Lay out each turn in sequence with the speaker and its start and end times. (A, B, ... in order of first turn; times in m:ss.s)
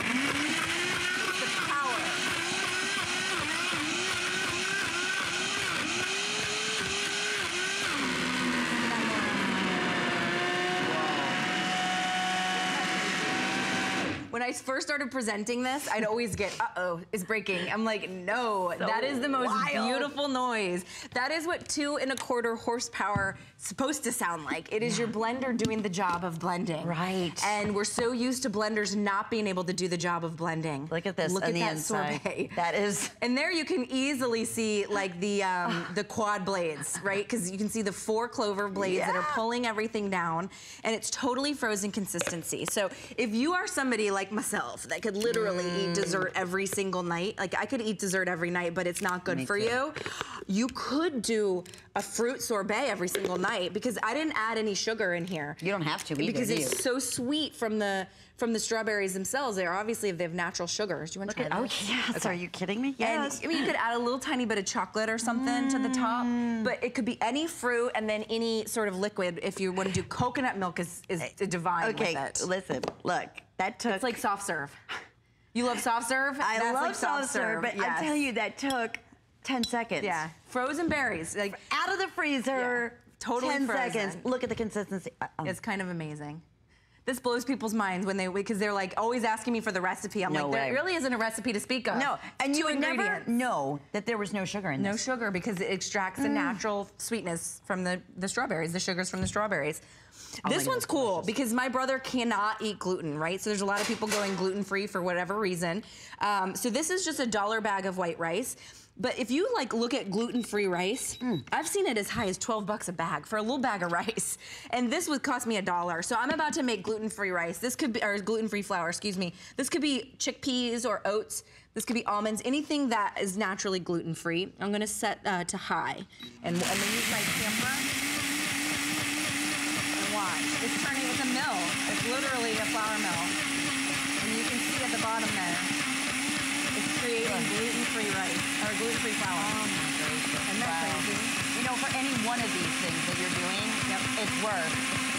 0:01.2-0:02.2 A
0:08.8-0:09.8 A
0:10.8-0:11.4 B
0:12.6-0:13.3 A
0:14.3-0:32.6 A
0:18.8-0:20.1 B
0:26.8-0:27.5 B
0:30.9-0:33.1 B
0:33.2-0:55.6 A
0:38.7-0:39.4 B
0:45.2-0:46.3 B
0:49.3-0:49.8 B
0:55.6-0:56.8 B
0:56.2-1:02.4 A
1:01.3-1:03.7 B
1:03.0-1:12.5 A
1:05.2-1:06.7 B
1:11.8-1:14.2 B
1:13.8-1:14.8 A
1:15.5-1:18.2 A
1:16.4-1:20.2 B
1:20.0-1:21.6 A
1:21.5-1:25.6 B
1:22.5-1:24.2 A
1:25.4-1:26.4 A
1:27.0-1:33.3 A
1:30.3-1:30.9 B
1:31.9-1:35.0 B
1:34.8-1:39.8 A
1:36.2-1:36.6 B
1:40.4-2:07.9 A
1:40.4-1:41.3 B
2:10.0-2:13.4 A
2:14.2-2:15.7 A
2:16.7-2:19.6 A
2:17.2-2:17.5 B
2:19.3-2:24.9 B
2:20.4-2:21.4 A